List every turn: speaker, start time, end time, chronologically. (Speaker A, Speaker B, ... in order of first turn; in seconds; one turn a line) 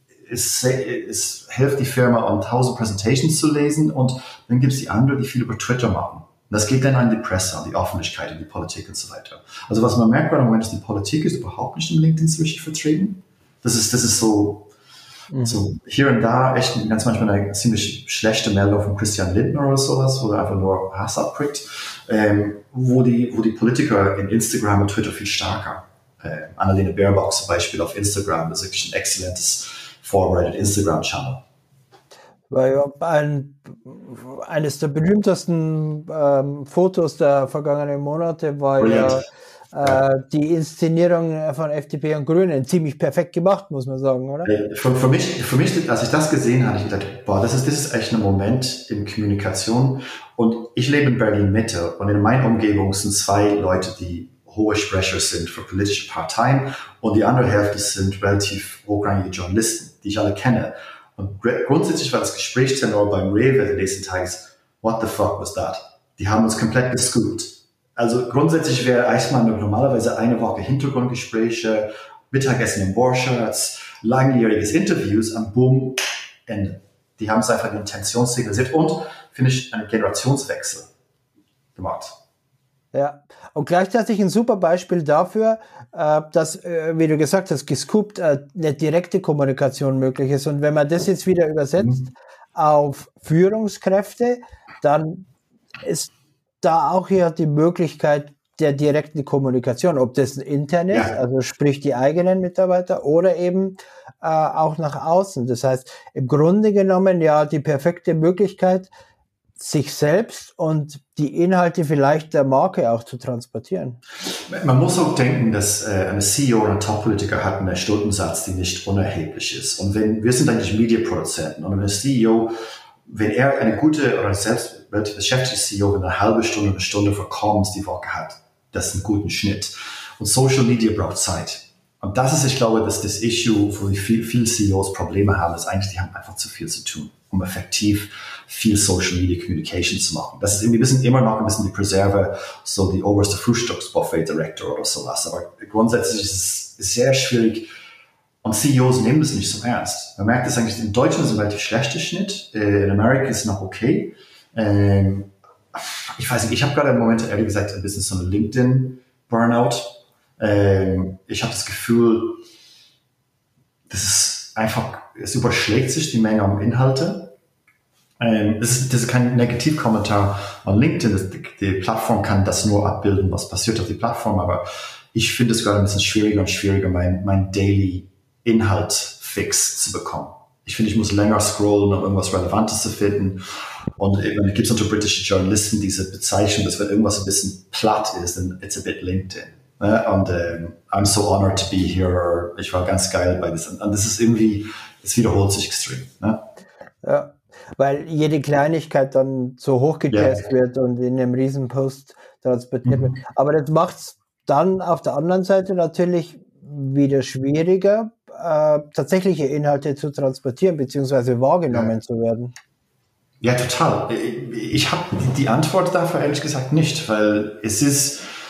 Speaker A: 0.2-14.7
Speaker B: 15.3-15.6
Speaker A: 15.4-31.4
Speaker B: 32.5-44.5
Speaker A: 38.8-39.3
Speaker A: 44.4-80.9
Speaker A: 81.8-82.2
Speaker B: 82.9-95.3
Speaker A: 91.8-92.0
Speaker B: 95.8-108.9
Speaker B: 109.6-114.0
Speaker A: 114.4-122.5
Speaker A: 123.0-147.7
Speaker A: 148.4-162.4
Speaker A: 163.9-167.3
Speaker A: 168.2-183.4
Speaker A: 184.0-196.4
Speaker B: 197.0-212.5
Speaker A: 200.1-200.4
Speaker A: 202.8-203.1
Speaker A: 213.4-218.3